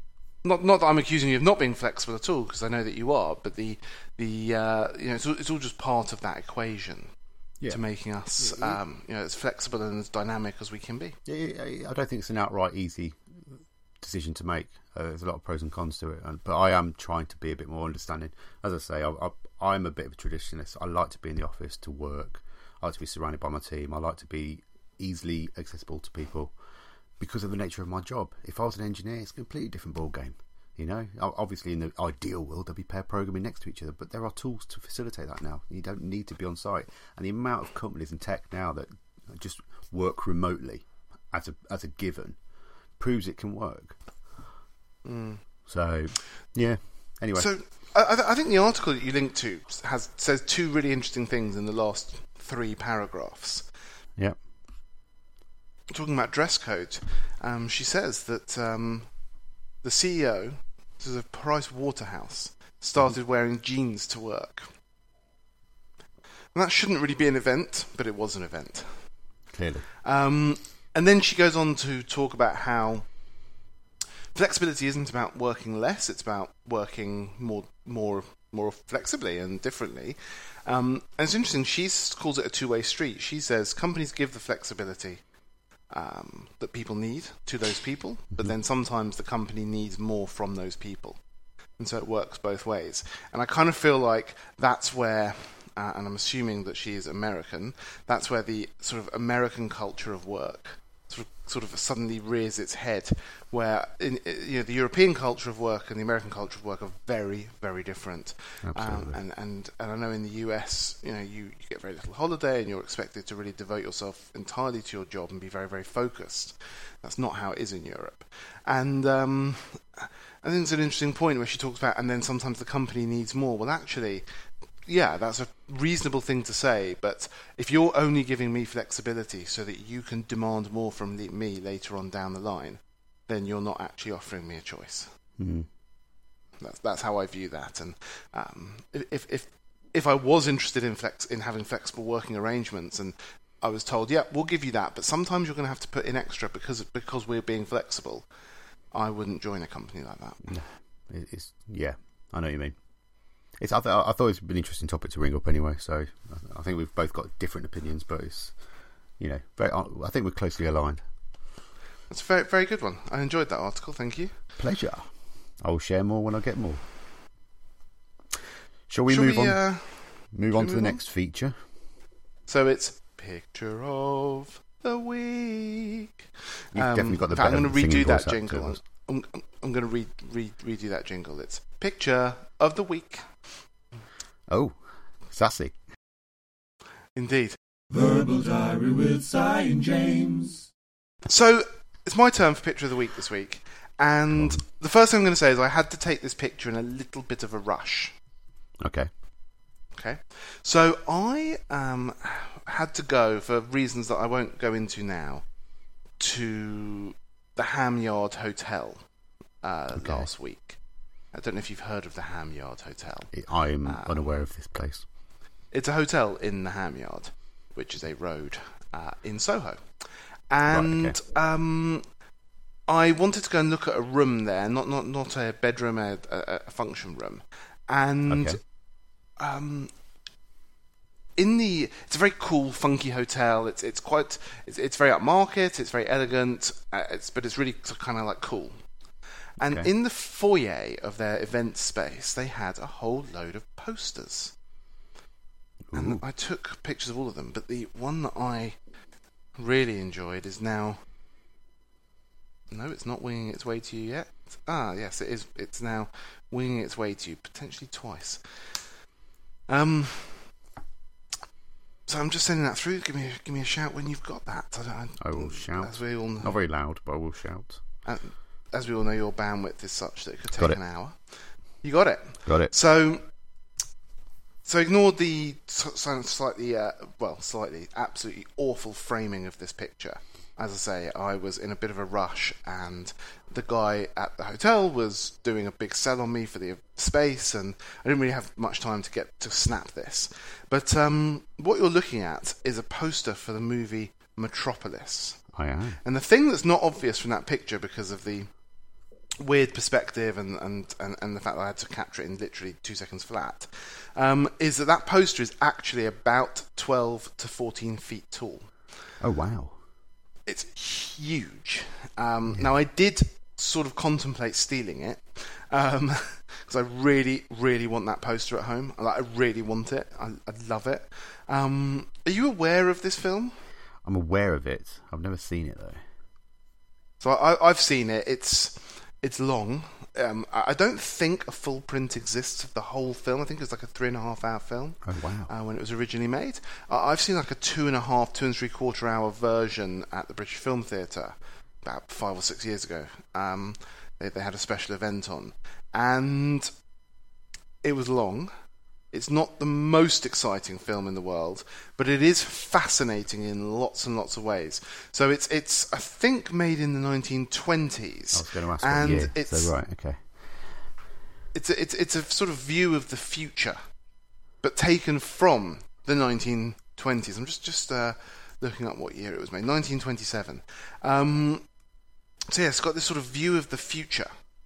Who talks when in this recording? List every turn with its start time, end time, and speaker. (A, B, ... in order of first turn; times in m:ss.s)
0:00.4-0:07.1 A
0:07.7-0:11.2 A
0:08.4-0:08.8 B
0:11.2-0:26.5 B
0:27.2-0:42.4 B
0:43.0-0:44.0 B
0:45.0-0:45.4 A
0:45.6-0:47.5 B
0:47.3-0:53.7 A
0:55.9-0:59.1 A
0:59.8-1:04.7 A
1:06.5-1:09.2 A
1:09.5-1:09.9 B
1:10.0-1:13.2 A
1:14.3-1:25.2 A
1:25.9-1:31.2 A
1:31.8-2:04.2 A
1:48.6-1:49.2 B
2:04.8-2:15.1 A
2:15.4-2:15.7 B
2:16.6-2:28.3 A
2:28.9-2:30.4 A
2:30.4-2:32.8 B
2:33.6-2:38.6 B
2:39.2-2:41.0 B
2:42.1-2:44.4 A
2:44.6-2:45.1 B
2:45.6-2:46.8 B
2:48.9-2:51.6 B
2:49.1-2:51.0 A
2:52.5-3:03.5 A
2:56.7-2:58.8 B
3:04.5-3:05.8 B
3:07.1-3:07.6 A
3:07.9-3:10.7 C
3:11.2-3:18.2 A
3:14.3-3:14.6 B
3:18.8-3:19.1 B
3:19.9-3:25.4 A
3:26.2-3:29.0 A
3:29.6-3:30.8 A
3:29.9-3:30.3 B
3:31.3-3:34.3 A
3:33.3-3:35.0 B
3:35.7-3:42.1 A
3:40.7-3:41.2 B
3:42.9-3:48.7 A
3:48.3-3:48.6 B
3:49.4-3:49.9 A
3:51.4-3:58.8 A
3:59.6-4:04.6 A
3:59.6-3:59.9 B
4:05.9-4:06.2 B
4:05.9-4:08.8 A
4:09.6-4:11.0 A
4:12.7-4:18.9 A
4:19.7-4:20.6 A
4:22.1-4:26.6 A
4:25.2-4:27.8 B
4:28.0-4:33.2 A
4:32.4-4:32.7 B
4:34.6-4:58.6 A
4:55.5-4:56.0 B
4:59.4-5:08.7 A
5:09.2-5:09.8 B
5:10.4-5:23.5 A
5:24.0-5:26.0 B
5:27.2-5:46.7 A
5:35.0-5:35.5 B
5:47.8-5:48.5 A
5:49.1-5:59.7 A
5:58.3-6:00.8 B
6:01.5-6:03.8 A
6:04.6-6:11.7 A
6:12.5-6:14.3 A